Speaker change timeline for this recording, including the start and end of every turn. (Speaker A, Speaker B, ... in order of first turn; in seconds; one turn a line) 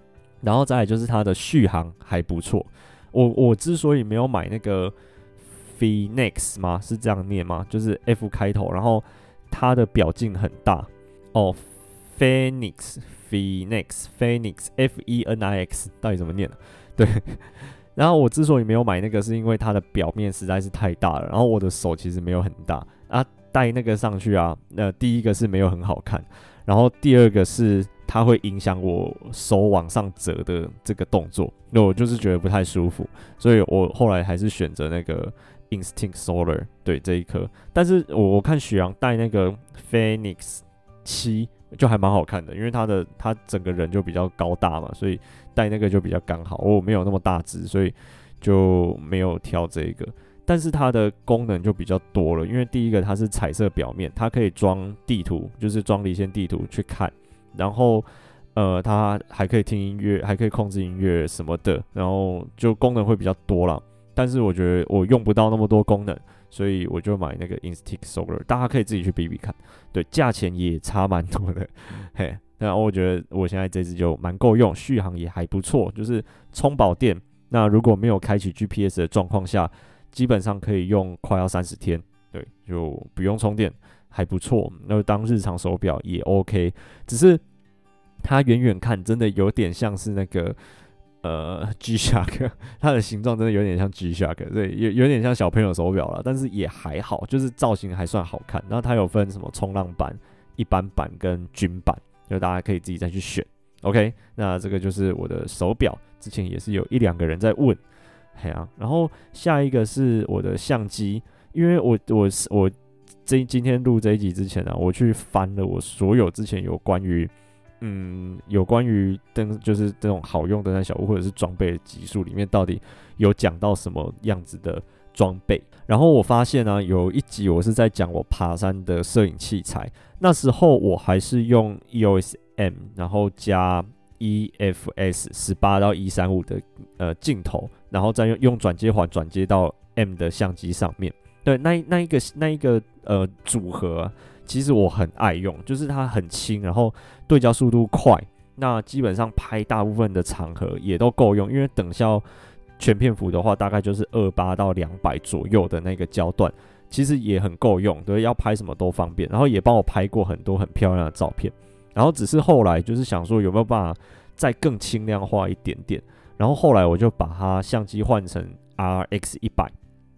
Speaker A: 0.4-87.4
Speaker A: 88.2-90.5
Speaker A: 91.2-107.8
Speaker A: 108.3-112.7
Speaker A: 113.2-152.2
Speaker A: 152.8-169.7